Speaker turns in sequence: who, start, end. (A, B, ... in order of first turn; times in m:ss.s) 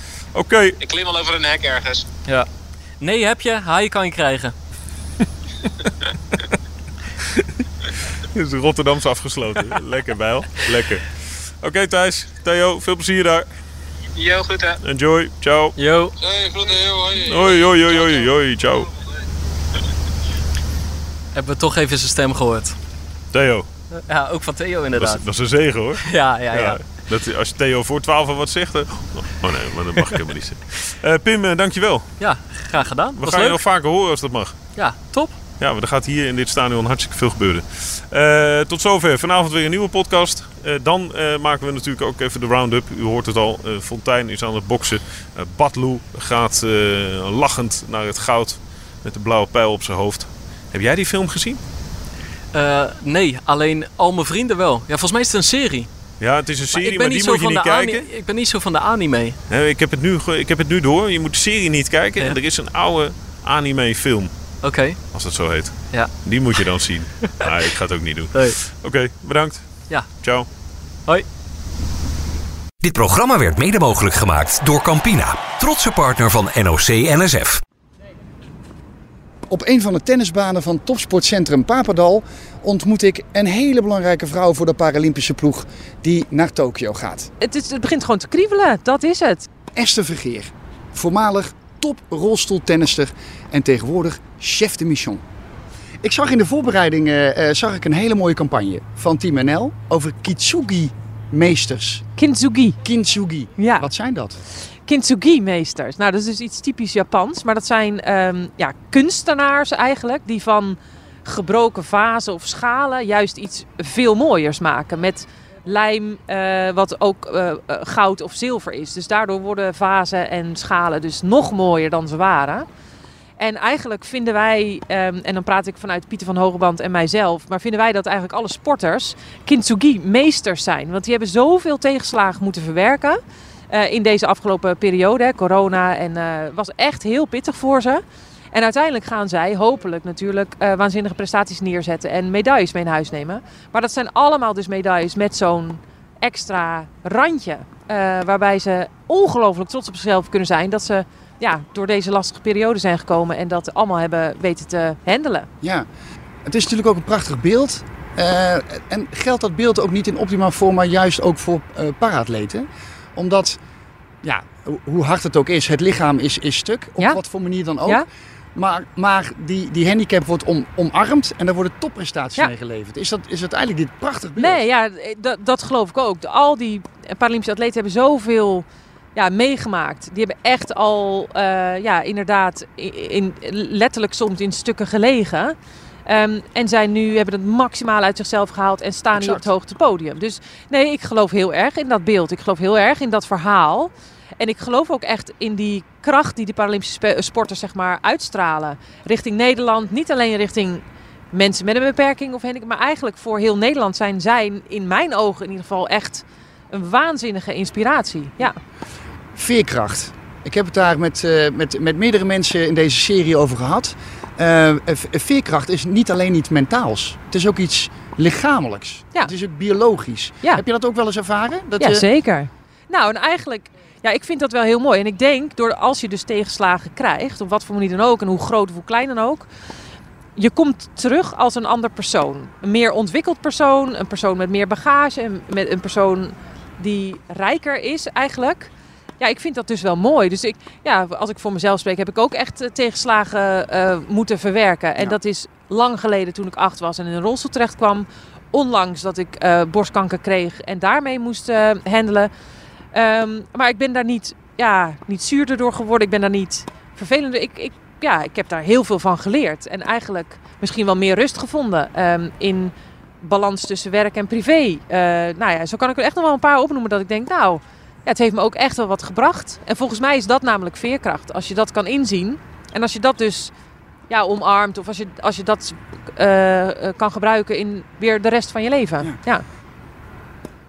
0:00.3-0:00.8 A
0:00.8-0:02.0 B
0:03.0-0:04.5 C
0:08.3-0:13.4 A
0:14.2-0:14.8 B
0:14.8-0:15.8 A
0:15.8-0:16.1 C
0:16.2-0:18.3 B
0:17.2-0:18.9 A
0:21.3-0:22.8 C
0:23.3-0:23.7 A
0:23.9-0:25.2 C
0:24.9-0:32.1 A
0:26.0-0:26.8 C
0:32.2-0:33.6 C
0:33.2-0:34.6 A
0:34.8-0:35.4 C
0:35.6-0:51.6 A
0:52.5-0:55.9 C
0:56.2-0:58.1 A
0:56.7-0:59.4 C
0:59.5-1:04.3 A
1:04.6-1:05.0 C
1:05.1-1:10.5 A
1:08.3-1:08.6 C
1:12.8-1:17.6 D
1:19.5-1:27.3 E
1:27.4-1:29.5 F
1:29.7-1:35.2 E
1:36.0-1:42.0 E
1:42.2-1:42.8 F
1:42.8-1:44.4 E
1:43.6-1:43.9 F
1:44.9-2:02.7 F
2:03.4-2:13.2 F
2:13.7-2:18.0 F
2:18.5-2:35.5 F
2:36.4-2:43.6 E
2:44.2-2:48.0 E
2:48.5-2:54.6 E
2:54.4-3:05.5 F
3:06.1-3:28.6 F
3:09.1-3:09.4 E
3:29.4-3:42.0 E
3:41.8-3:49.5 F
3:50.4-4:12.3 F
4:12.9-4:33.5 F
4:34.1-4:39.4 F